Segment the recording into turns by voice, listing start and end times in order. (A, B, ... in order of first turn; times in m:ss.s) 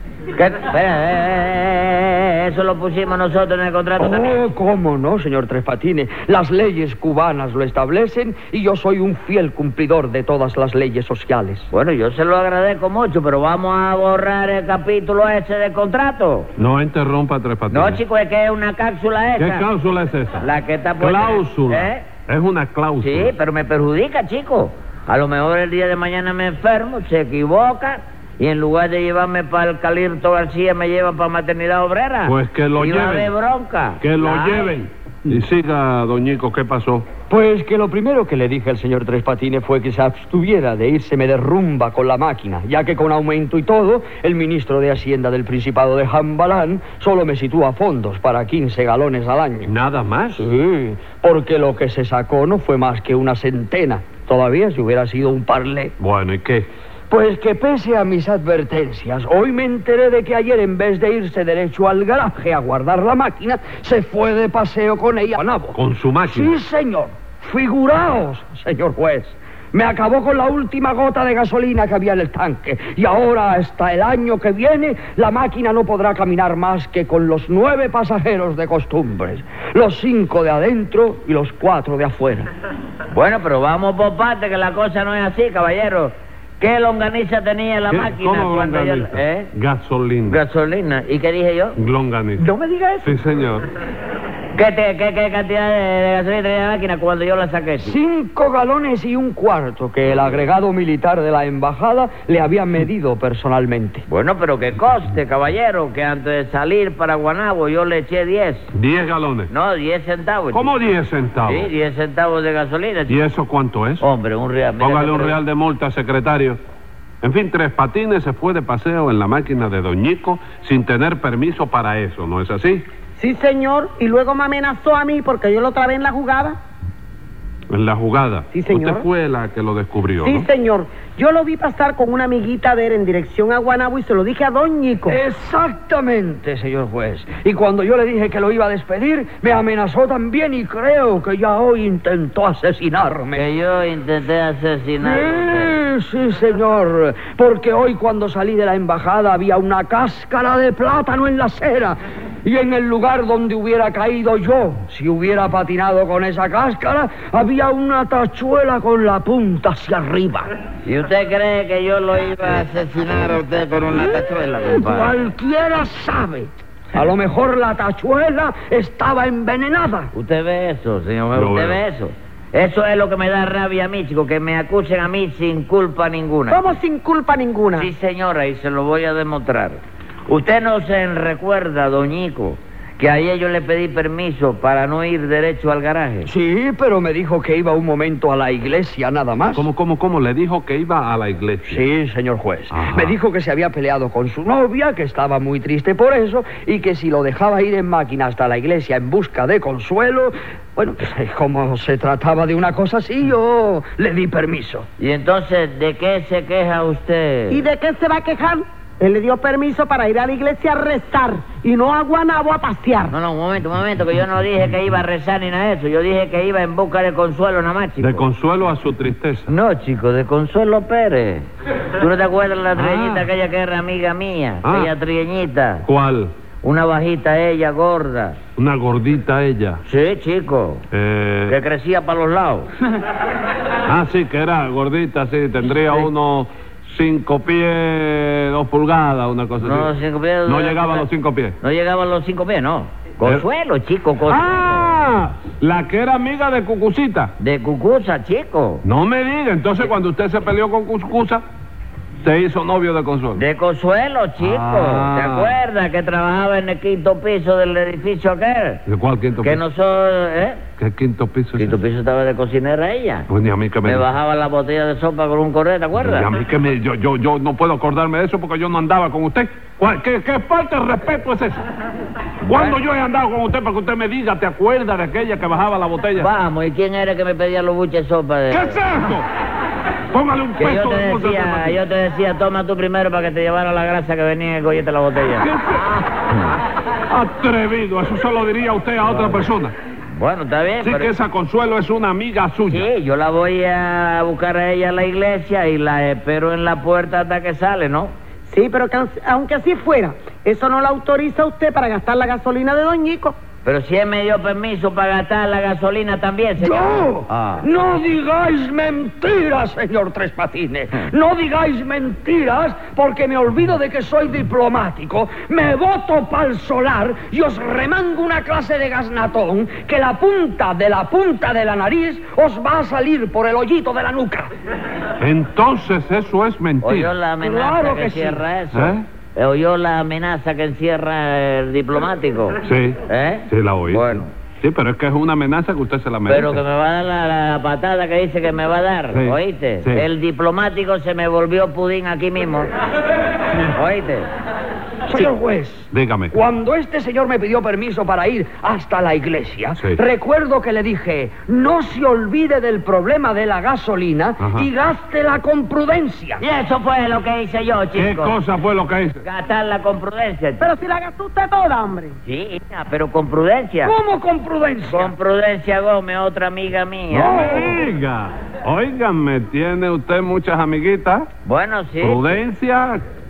0:00.3-0:04.4 A
0:04.0-0:11.7 B
0:11.7-0:16.5 A
0:16.6-0:18.0 C
0:17.7-0:19.6 A
0:19.4-0:20.5 C
0:20.4-0:22.1 A
0:21.0-0:23.3 C
0:23.0-0:34.7 A
0:32.2-0:33.3 C
0:34.0-0:37.0 C
0:37.3-0:49.7 B
0:49.6-0:50.5 C
0:50.3-0:55.9 B
0:56.0-0:56.7 C
0:57.1-1:22.5 B
1:05.7-1:06.6 C
1:23.1-1:29.5 A
1:27.9-1:30.4 C
1:30.3-1:31.8 A
1:31.8-1:32.5 C
1:32.4-1:33.1 D
1:33.0-1:33.7 C
1:34.5-1:38.0 A
1:37.8-1:44.0 B
1:44.1-1:48.7 A
1:48.7-1:49.5 C
1:49.5-1:50.7 A
1:50.5-1:51.7 C
1:51.4-1:53.2 A
1:53.1-1:54.0 C
1:54.0-1:55.4 A
1:54.8-1:56.6 C
1:57.2-2:02.9 C
2:03.2-2:06.6 D
2:07.7-2:10.5 C
2:08.5-2:09.0 D
2:10.2-2:15.2 D
2:15.1-2:23.4 B
2:23.3-2:25.7 A
2:25.0-2:40.5 B
2:40.8-2:45.1 A
2:44.7-2:50.1 B
2:50.1-2:56.6 A
2:51.3-2:51.8 C
2:56.5-2:57.9 D
2:57.7-3:06.3 A
3:06.2-3:09.7 B
3:09.5-3:11.8 C
3:11.6-3:24.8 B
3:12.7-3:13.2 C
3:25.0-3:27.6 A
3:27.5-3:33.1 D
3:33.1-3:38.2 A
3:38.0-3:39.5 C
3:39.5-3:45.8 A
3:42.7-3:43.3 C
3:44.6-3:44.9 C
3:45.8-3:46.3 C
3:46.6-3:48.4 A
3:48.6-3:49.8 C
3:49.8-3:50.8 A
3:50.9-3:51.6 C
3:51.5-3:52.7 A
3:53.8-3:59.9 C
3:59.6-4:01.1 A
4:00.4-4:01.6 C
4:01.6-4:04.9 A
4:04.2-4:07.3 C
4:07.4-4:08.8 A
4:08.8-4:11.4 C
4:12.2-4:13.4 C
4:13.3-4:18.8 A
4:14.4-4:15.6 C
4:18.8-4:19.6 C
4:19.4-4:20.6 A
4:20.8-4:21.8 C
4:21.6-4:23.3 A
4:23.3-4:24.0 C
4:23.8-4:26.3 A
4:26.0-4:31.7 C
4:32.4-4:36.3 C
4:32.4-4:32.8 A
4:36.2-4:38.8 A
4:38.5-4:39.3 C
4:40.1-4:41.8 C
4:40.6-4:45.5 A
4:45.4-4:46.1 C
4:47.1-4:49.7 C
4:50.1-4:51.1 A
4:50.8-4:52.9 C
4:52.7-4:58.1 A
4:58.4-5:03.4 D
5:03.6-5:07.7 A
5:06.6-5:24.5 B
5:25.2-5:27.1 C
5:26.8-5:34.3 A
5:27.4-5:28.4 B
5:28.7-5:29.0 C
5:32.6-5:36.6 C
5:36.3-5:42.7 A
5:39.1-5:40.0 C
5:43.7-5:44.3 A
5:45.1-5:56.4 B
5:45.9-5:46.4 C
5:49.8-5:50.0 C
5:54.4-5:54.7 C
5:56.4-5:58.4 A
5:57.9-5:59.2 C
5:59.2-6:00.7 A
6:00.6-6:02.1 D
6:02.2-6:03.9 A
6:03.8-6:05.1 B
6:04.9-6:07.7 A
6:07.1-6:07.8 B
6:07.2-6:11.3 C
6:11.4-6:12.4 A
6:12.0-6:13.0 C